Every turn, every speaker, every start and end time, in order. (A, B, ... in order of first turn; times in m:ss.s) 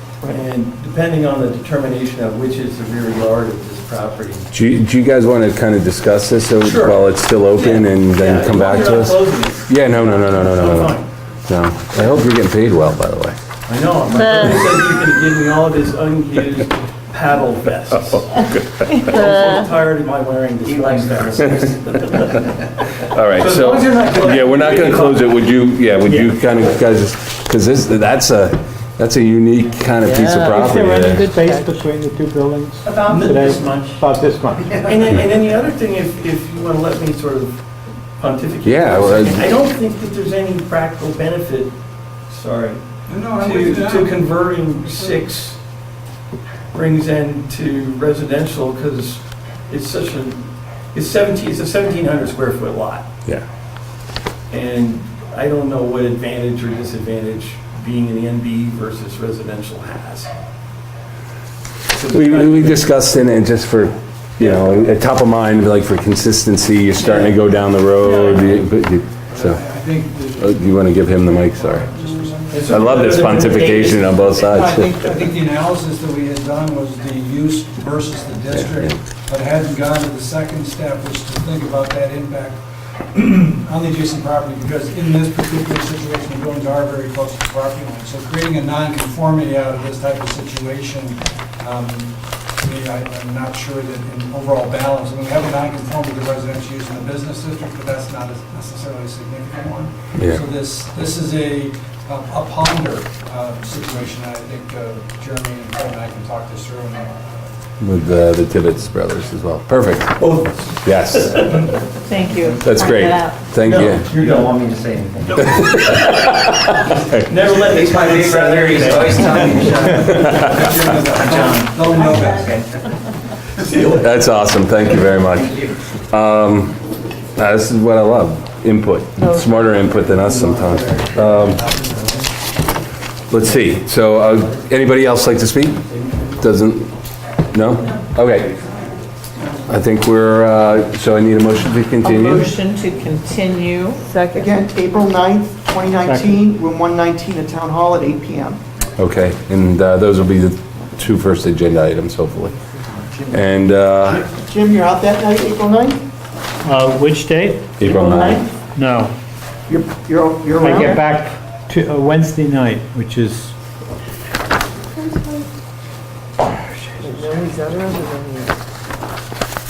0:00.2-0:04.5 A
0:04.5-0:13.4 B
0:06.6-0:11.1 A
0:13.7-0:25.5 A
0:18.2-0:19.1 B
0:20.6-0:21.8 C
0:23.1-0:31.3 B
0:26.0-0:26.4 A
0:30.2-0:30.6 D
0:30.4-0:35.1 E
0:31.4-0:31.6 D
0:32.8-0:33.7 F
0:33.1-0:33.7 A
0:34.8-0:37.6 A
0:38.2-0:41.8 A
0:38.6-0:39.4 B
0:42.3-0:45.6 A
0:43.1-0:45.2 G
0:46.7-0:53.1 A
0:54.5-1:00.3 A
1:01.9-1:02.9 A
1:02.1-1:09.6 B
1:04.4-1:04.7 A
1:07.0-1:07.3 A
1:08.0-1:08.4 F
1:09.3-1:13.6 G
1:10.4-1:11.9 B
1:12.5-1:14.6 A
1:12.7-1:14.9 B
1:14.4-1:22.6 G
1:18.5-1:19.0 B
1:23.1-1:47.6 G
1:40.2-1:40.4 B
1:47.8-1:51.7 B
1:50.2-1:51.7 A
1:52.0-1:53.4 F
1:52.6-1:54.1 B
1:53.6-1:55.8 C
1:53.9-1:54.6 A
1:55.4-1:57.3 B
1:55.5-1:56.1 G
1:57.3-2:00.3 A
1:57.4-2:02.7 C
2:00.0-2:02.6 G
2:02.0-2:02.3 F
2:03.6-2:04.2 A
2:04.0-2:06.8 B
2:05.4-2:05.7 C
2:07.4-2:11.6 B
2:10.7-2:11.3 A
2:13.3-2:16.9 B
2:15.9-2:16.2 A
2:17.5-2:18.6 B
2:19.7-2:22.5 B
2:22.0-2:24.0 F
2:24.1-2:24.4 D
2:24.3-2:28.6 H
2:26.1-2:26.4 E
2:29.0-2:32.6 B
2:33.3-2:34.2 B
2:34.0-2:36.0 H
2:36.6-2:37.7 E
2:37.8-2:38.5 B
2:37.8-2:38.5 F
2:38.7-2:39.1 E
2:39.7-2:41.0 H
2:40.5-2:43.5 E
2:47.0-2:47.3 E
2:47.0-2:48.5 D